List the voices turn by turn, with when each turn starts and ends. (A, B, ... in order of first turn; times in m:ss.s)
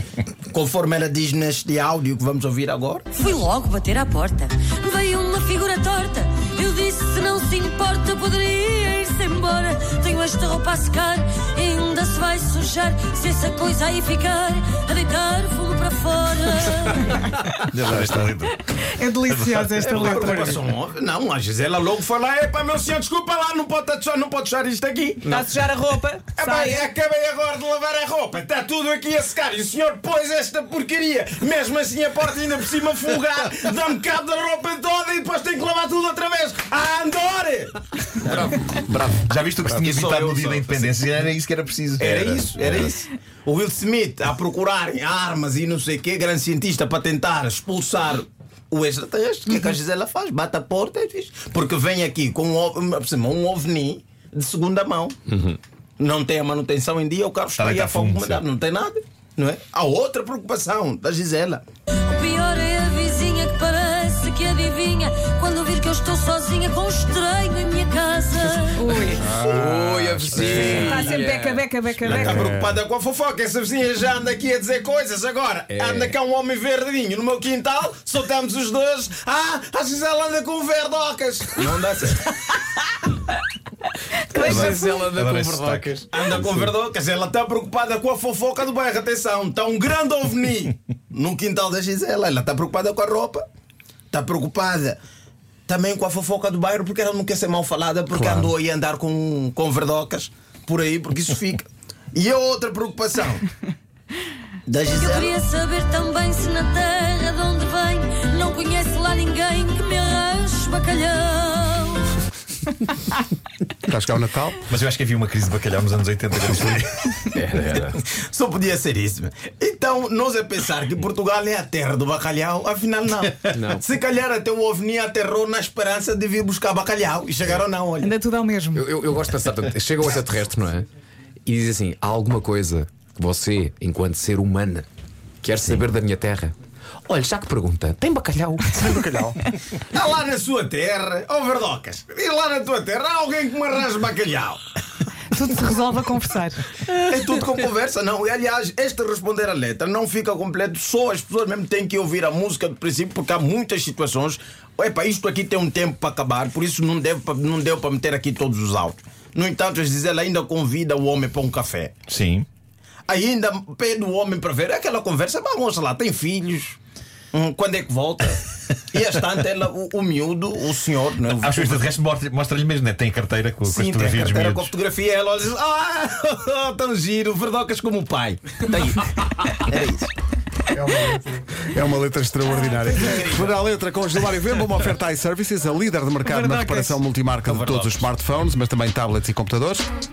0:00.4-0:03.1 A
0:03.1-0:17.1 B
0:17.1-0:19.8 C
0:18.9-0:20.6 D
0:19.8-0:25.4 A
0:25.3-0:26.9 D
0:26.3-0:38.8 A
0:38.7-0:39.2 E
0:39.1-0:42.9 C
0:39.7-0:41.0 A
0:42.0-0:55.2 A
0:56.0-1:01.6 A
0:57.6-0:58.4 C
1:02.0-1:09.0 B
1:08.8-1:09.6 D
1:08.9-1:12.2 F
1:09.3-1:10.4 E
1:10.3-1:11.0 A
1:10.4-1:12.5 D
1:12.0-1:22.3 A
1:12.3-1:12.8 E
1:15.7-1:16.1 F
1:24.2-1:26.7 F
1:24.3-1:25.0 D
1:24.4-1:26.0 C
1:26.1-1:33.4 A
1:34.1-1:35.0 A
1:35.7-1:43.5 A
1:38.1-1:38.5 E
1:44.7-1:45.4 A
1:44.9-1:52.2 B
1:53.8-1:54.6 E
1:54.7-1:57.4 C
1:57.3-1:58.0 F
1:58.1-2:08.1 A
2:03.5-2:03.9 F
2:08.0-2:08.9 D
2:08.7-2:10.9 F
2:11.5-2:14.9 F
2:15.4-2:16.6 F
2:17.1-2:19.4 F
2:18.8-2:19.4 E
2:19.7-2:24.6 A
2:25.3-2:26.7 D
2:26.8-2:42.0 A
2:42.1-2:42.5 C
2:43.1-2:46.8 A
2:47.3-2:51.9 A
2:51.4-2:54.7 C
2:53.6-3:00.1 A
3:00.7-3:09.9 E
3:03.0-3:03.6 A
3:06.2-3:07.0 D
3:07.5-3:07.9 A